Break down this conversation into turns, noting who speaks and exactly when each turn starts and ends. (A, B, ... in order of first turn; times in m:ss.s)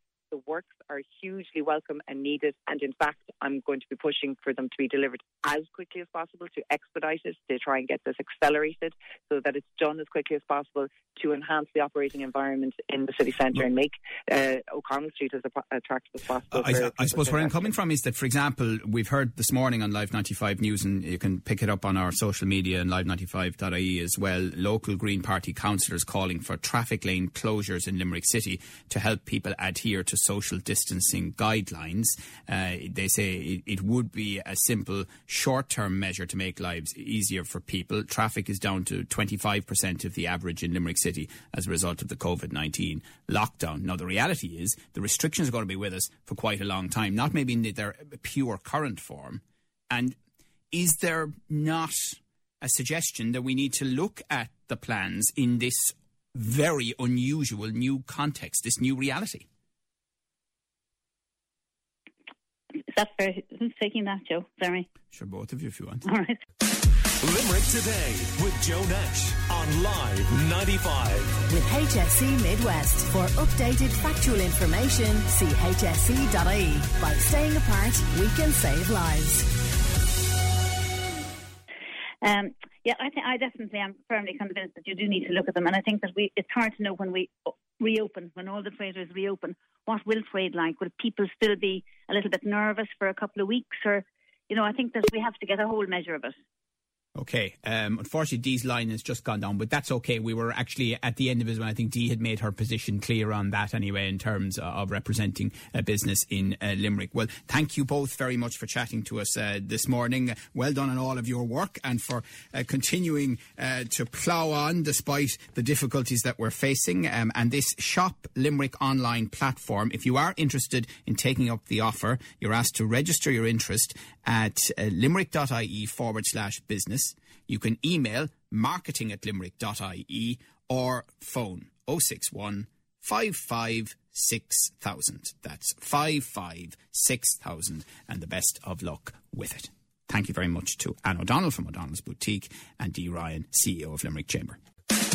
0:00.3-0:17.6 A
0:16.5-0:50.1 B
0:50.7-0:59.4 B
1:02.9-1:04.9 C
1:05.1-1:06.0 B
1:06.0-1:06.4 C
1:07.2-1:11.4 D
1:11.4-1:19.4 E
1:22.2-1:36.3 C
1:37.1-2:24.6 B